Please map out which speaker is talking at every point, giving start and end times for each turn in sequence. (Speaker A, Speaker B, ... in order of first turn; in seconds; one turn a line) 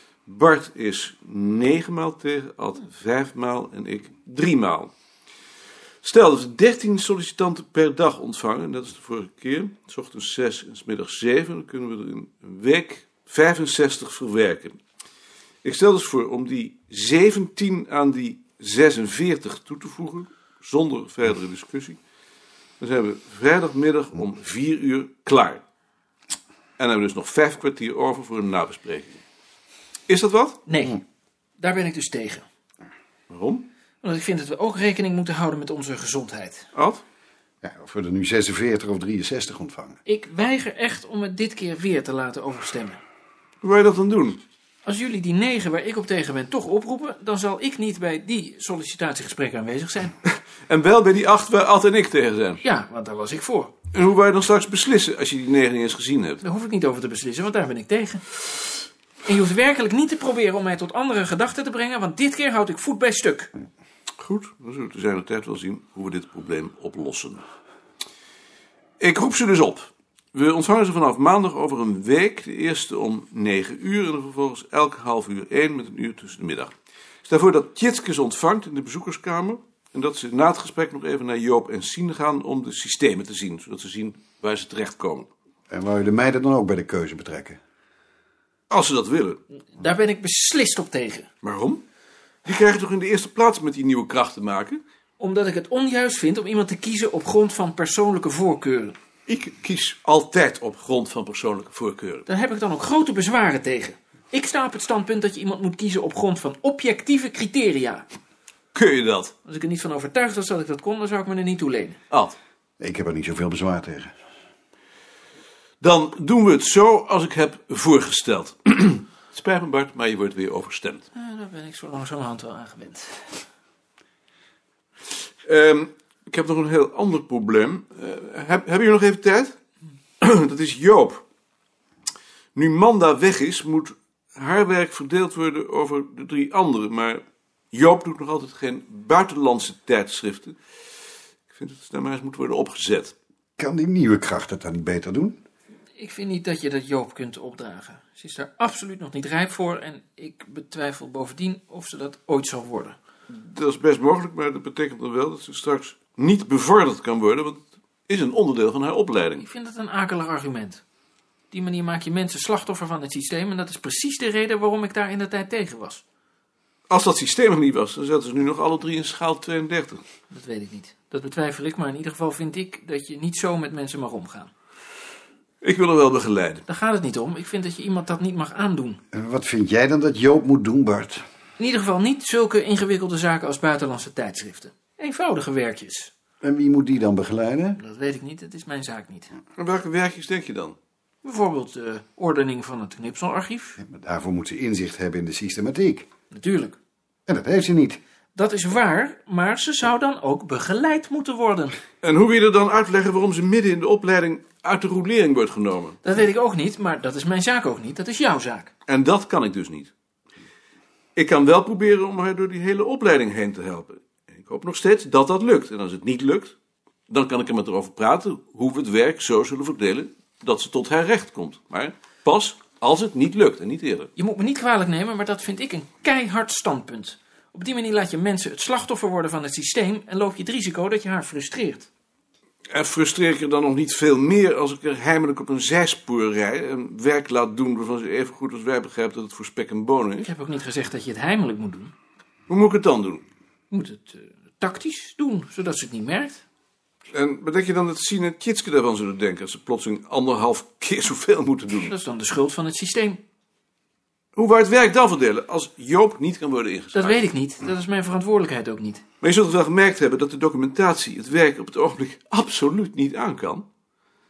Speaker A: 0.2-4.9
Speaker A: 6.0-14.8
Speaker A: 15.6-22.0
Speaker A: 22.8-25.6
Speaker A: 26.8-29.2
Speaker A: 30.1-30.6
Speaker B: 30.7-31.0
Speaker B: 31.6-32.5
Speaker A: 33.3-33.6
Speaker B: 34.0-36.7
Speaker A: 36.8-37.0
Speaker C: 37.6-40.0
Speaker B: 40.1-43.0
Speaker A: 43.6-44.4
Speaker B: 44.8-50.1
Speaker A: 50.2-52.6
Speaker B: 52.6-53.7
Speaker A: 53.9-56.4
Speaker B: 56.4-63.5
Speaker A: 64.2-67.4
Speaker A: 69.0-76.7
Speaker A: 77.2-85.3
Speaker C: 85.7-87.6
Speaker A: 88.7-89.4
Speaker B: 89.8-91.3
Speaker A: 91.4-91.8
Speaker A: 92.5-94.8
Speaker B: 95.2-99.0
Speaker A: 99.3-102.2
Speaker B: 102.3-108.1
Speaker A: 108.7-109.3
Speaker B: 109.4-112.0
Speaker A: 112.1-112.3
Speaker C: 112.8-114.1
Speaker A: 115.8-121.1
Speaker B: 121.1-123.4
Speaker A: 125.4-129.6
Speaker A: 130.2-131.2
Speaker A: 132.6-140.6
Speaker A: 141.5-143.2
Speaker C: 143.6-145.4
Speaker B: 146.0-152.9
Speaker A: 153.3-159.4
Speaker B: 159.4-160.8
Speaker B: 161.5-166.0
Speaker A: 166.9-170.0
Speaker B: 170.3-174.5
Speaker A: 175.6-176.7
Speaker B: 176.7-179.0
Speaker C: 179.1-181.2
Speaker B: 181.6-186.1
Speaker C: 186.4-187.8
Speaker B: 187.8-189.3
Speaker A: 189.6-190.8
Speaker B: 191.2-193.8
Speaker C: 193.8-196.1
Speaker B: 196.3-196.8
Speaker C: 197.3-198.0
Speaker B: 198.3-201.8
Speaker A: 202.0-206.0
Speaker B: 206.0-208.7
Speaker A: 208.9-209.9
Speaker A: 211.2-216.6
Speaker A: 217.1-224.1
Speaker B: 224.2-231.9
Speaker A: 232.7-240.3
Speaker B: 240.2-241.9
Speaker A: 242.5-243.2
Speaker B: 243.7-246.4
Speaker A: 247.1-251.9
Speaker B: 251.9-253.2
Speaker A: 254.3-257.3
Speaker B: 256.9-259.0
Speaker A: 259.2-263.7